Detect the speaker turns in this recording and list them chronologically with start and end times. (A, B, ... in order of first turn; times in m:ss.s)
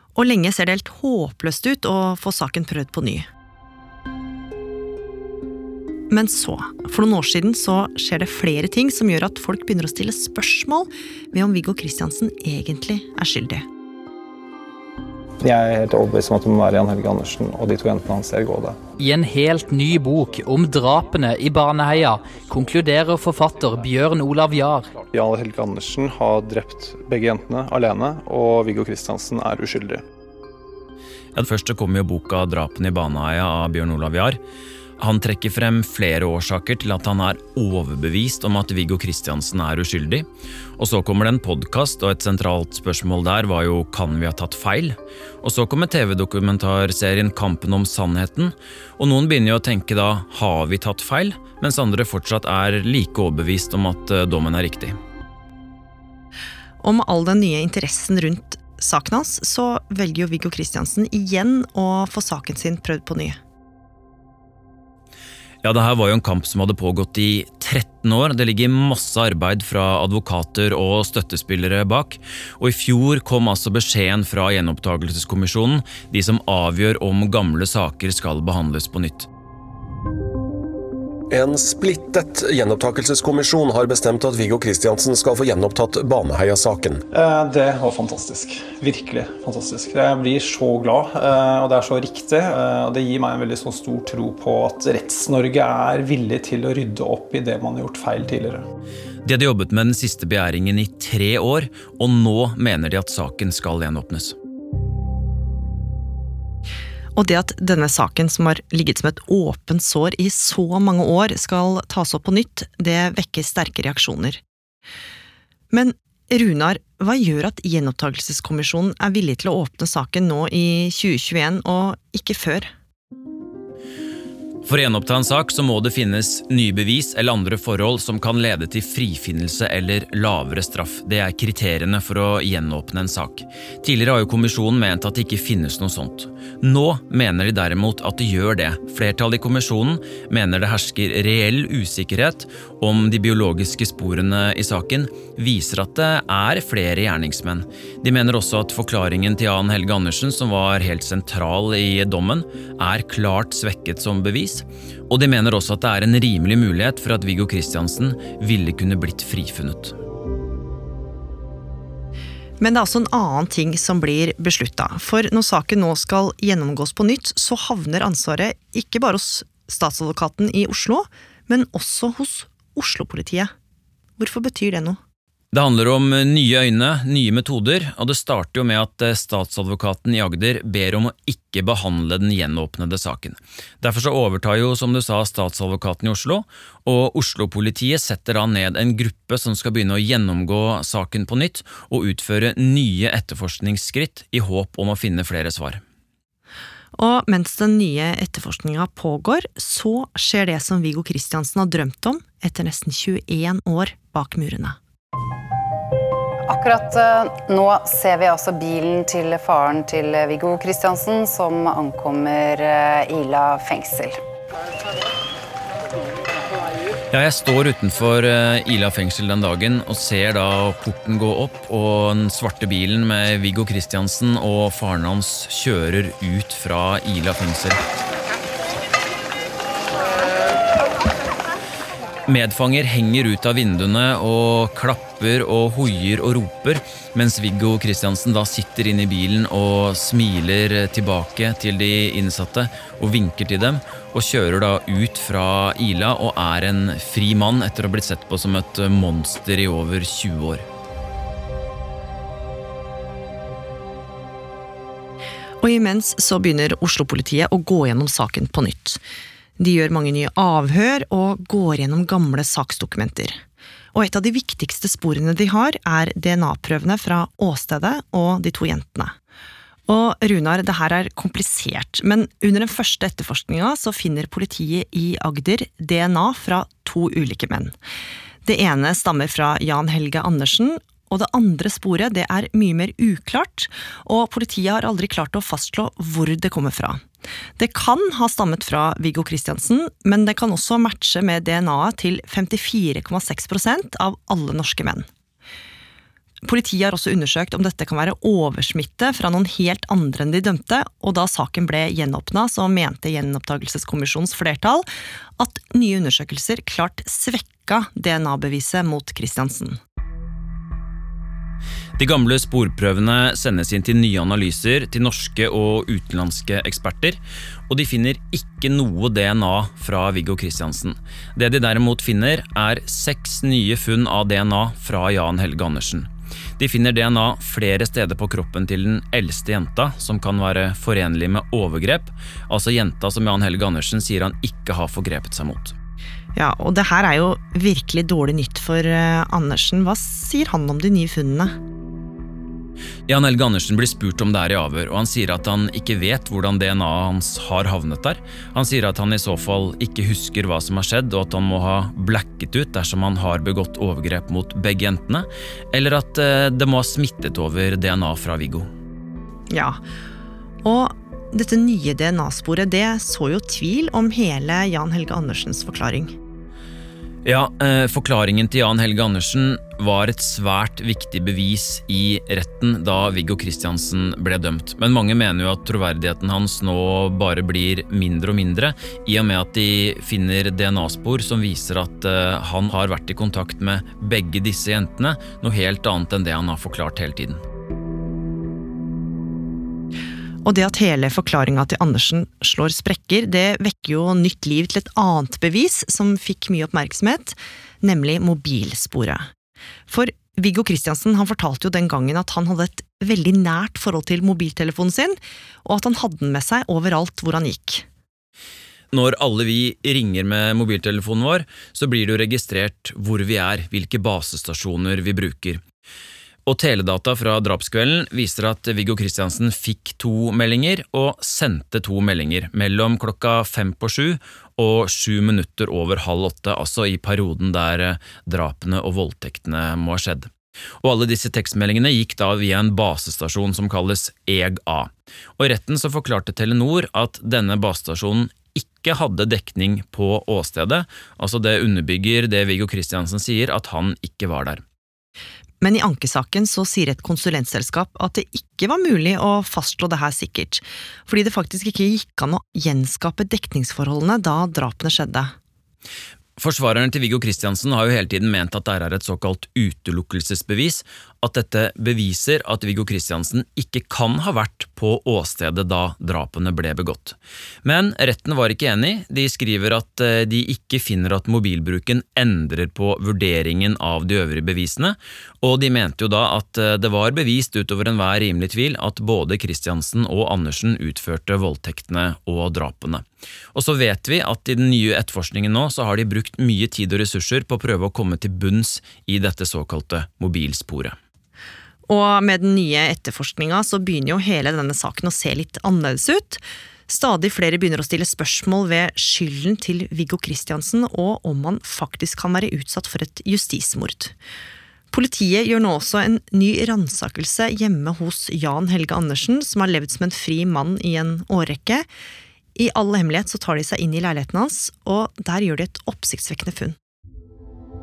0:00.1-0:03.2 A
0:06.1-0:13.6 A
0:15.4-0:18.8 B
0:19.0-0:24.9 C
0:25.1-0:30.0 B
0:31.3-0:34.4 D
0:35.0-0:40.2 D
0:40.8-0:55.0 D
0:56.8-1:03.4 A
1:05.6-1:19.3 D
1:21.3-1:27.0 E
1:27.1-1:38.6 B
1:39.2-1:44.4 D
1:47.2-1:54.4 A
1:55.7-2:02.7 A
2:04.6-2:39.9 D
2:42.6-2:53.5 A
2:54.2-2:55.0 A
2:55.5-3:15.8 D
3:17.0-3:24.8 A
3:26.5-3:34.2 F
3:37.1-3:47.8 D
3:52.3-4:10.6 D
4:15.6-4:19.0 A
4:19.6-4:23.4 A
4:23.9-4:29.1 A
4:29.9-4:37.8 A
4:38.4-4:47.0 A
4:47.6-4:55.0 A
4:56.4-5:04.8 A
5:05.4-5:09.8 A
5:12.0-5:35.7 D
5:36.3-5:41.5 A
5:43.1-5:58.7 D
5:59.5-5:59.8 A
6:00.6-6:06.1 A
6:07.2-6:27.4 D
6:30.4-6:39.3 A
6:39.9-6:47.8 A
6:48.9-6:55.6 D
6:56.4-7:24.6 D
7:25.6-7:35.3 A
7:36.4-8:11.0 D
8:11.9-8:24.1 A
8:24.9-8:31.9 A
8:32.6-8:36.8 A